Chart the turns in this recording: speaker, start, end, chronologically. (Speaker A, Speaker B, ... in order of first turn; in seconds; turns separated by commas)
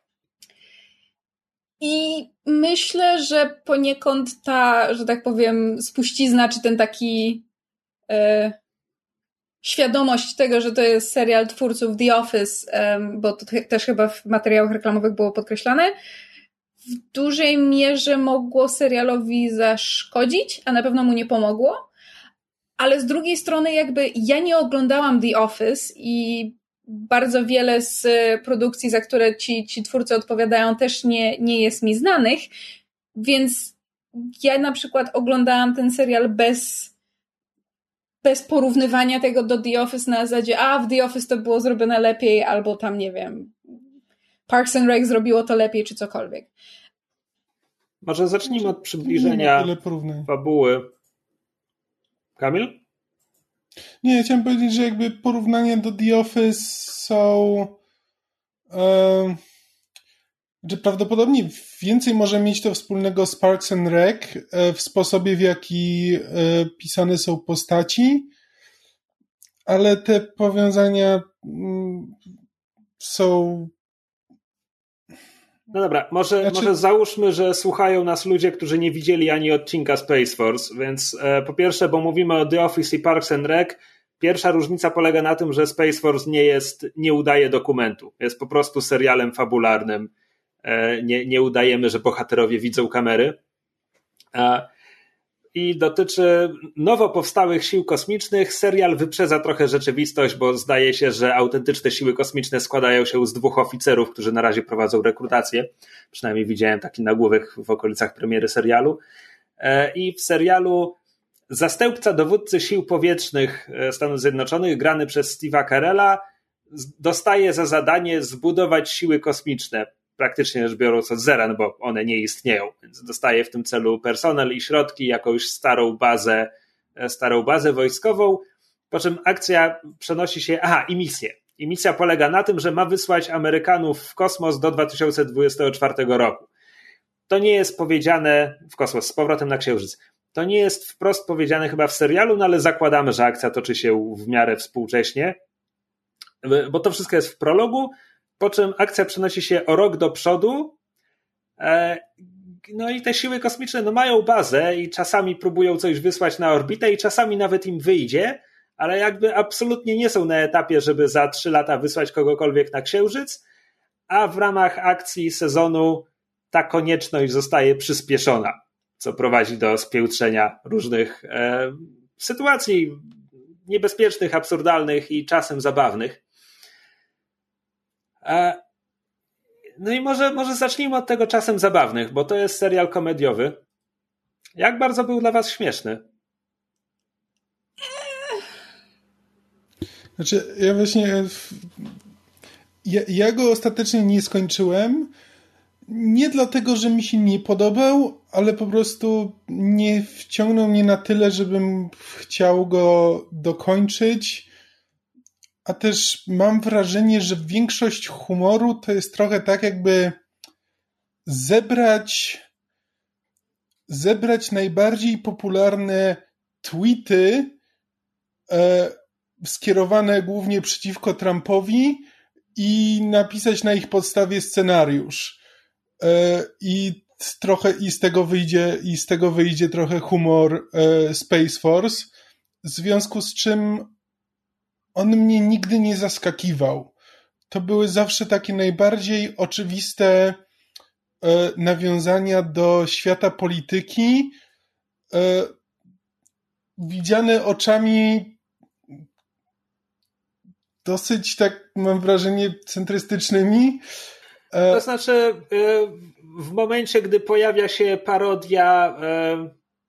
Speaker A: 1.8-7.4, Speaker A: 8.1-8.6, Speaker A: 9.6-15.9, Speaker A: 17.1-21.9, Speaker A: 22.8-32.5, Speaker A: 33.1-36.9, Speaker A: 38.2-43.5, Speaker A: 44.5-46.5, Speaker B: 48.0-49.7, Speaker C: 48.5-50.3, Speaker B: 50.3-50.9, Speaker B: 52.4-52.8, Speaker C: 54.0-57.8, Speaker C: 58.7-59.4, Speaker C: 60.6-68.3, Speaker C: 69.7-72.2, Speaker C: 73.0-73.7, Speaker B: 75.7-90.1, Speaker C: 76.4-76.7, Speaker B: 90.6-93.4, Speaker B: 94.3-94.7, Speaker B: 95.5-109.0, Speaker B: 109.6-111.0, Speaker B: 111.5-136.5, Speaker B: 137.3-145.3, Speaker B: 146.4-150.8, Speaker B: 151.6-152.0, Speaker B: 152.7-163.4, Speaker B: 164.1-173.0, Speaker B: 173.7-176.2, Speaker B: 178.2-178.6, Speaker B: 179.8-183.6, Speaker B: 184.6-186.0, Speaker C: 190.2-191.8, Speaker C: 192.8-195.1, Speaker C: 195.9-204.5, Speaker C: 205.6-210.2, Speaker C: 211.2-212.4, Speaker C: 213.9-217.6, Speaker C: 218.5-225.4, Speaker C: 226.0-232.1, Speaker C: 232.6-233.9, Speaker C: 234.9-236.9, Speaker C: 237.5-240.4, Speaker C: 241.2-244.4, Speaker C: 245.1-245.5, Speaker C: 246.8-248.4, Speaker C: 250.8-253.8, Speaker C: 254.5-254.8, Speaker B: 254.7-259.5